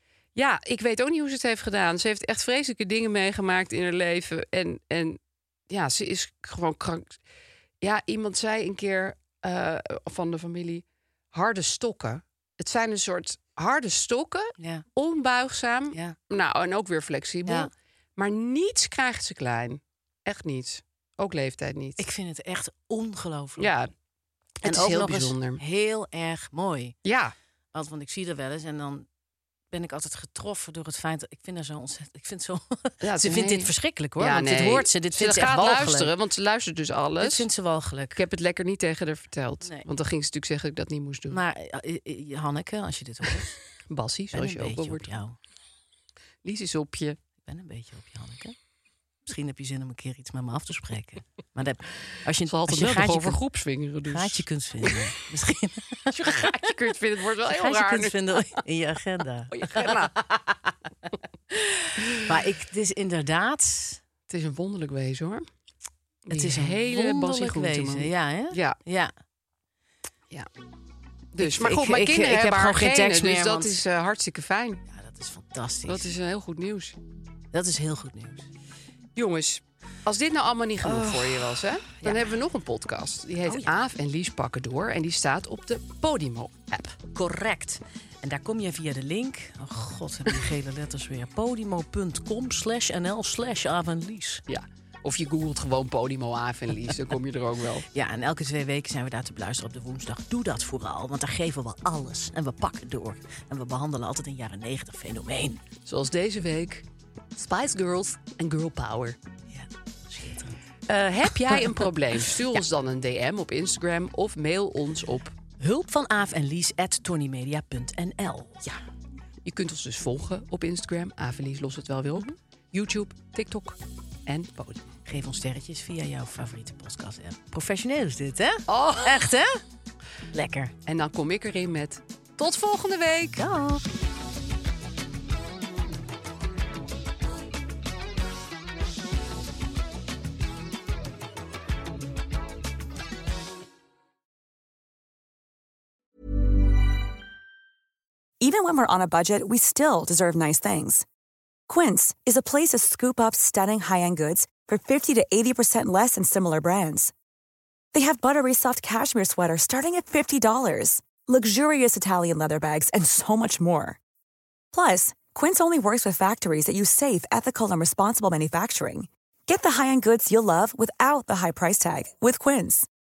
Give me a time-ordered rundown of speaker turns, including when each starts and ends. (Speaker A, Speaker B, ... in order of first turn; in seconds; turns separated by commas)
Speaker A: 0.3-7.2, Speaker A: 7.8-22.1, Speaker B: 14.6-14.8, Speaker B: 15.9-16.2, Speaker B: 22.0-23.7, Speaker A: 23.6-23.9, Speaker A: 24.6-25.6, Speaker B: 24.6-26.9, Speaker A: 27.0-27.3, Speaker B: 27.7-29.1, Speaker B: 29.7-36.1, Speaker A: 33.0-37.5, Speaker B: 37.2-38.2, Speaker A: 38.2-41.4, Speaker B: 41.3-43.6, Speaker A: 43.9-45.1, Speaker B: 44.3-45.4, Speaker A: 46.4-47.2, Speaker B: 47.5-48.6, Speaker B: 49.3-53.4, Speaker A: 52.5-55.0, Speaker B: 54.1-56.5, Speaker A: 56.1-58.3, Speaker B: 57.4-60.6, Speaker A: 59.5-60.1, Speaker B: 61.5-64.0, Speaker A: 62.0-62.3, Speaker A: 64.3-65.5, Speaker A: 66.3-68.8, Speaker B: 66.3-69.1, Speaker A: 71.3-74.8, Speaker B: 71.4-73.8, Speaker B: 74.9-76.2, Speaker A: 75.9-77.0, Speaker B: 77.5-78.5, Speaker A: 79.2-87.0, Speaker B: 80.8-82.2, Speaker B: 83.5-83.7, Speaker B: 87.1-94.4, Speaker A: 94.5-97.8, Speaker B: 97.9-105.6, Speaker A: 105.8-109.2, Speaker B: 109.5-110.6, Speaker A: 110.9-115.4, Speaker B: 115.6-118.7, Speaker A: 119.5-125.0, Speaker B: 125.0-129.6, Speaker A: 128.7-129.3, Speaker B: 130.3-130.7, Speaker A: 130.9-133.4, Speaker B: 133.4-133.8, Speaker C: 148.4-151.1, Speaker C: 151.7-157.1, Speaker C: 157.9-164.0, Speaker C: 164.7-172.9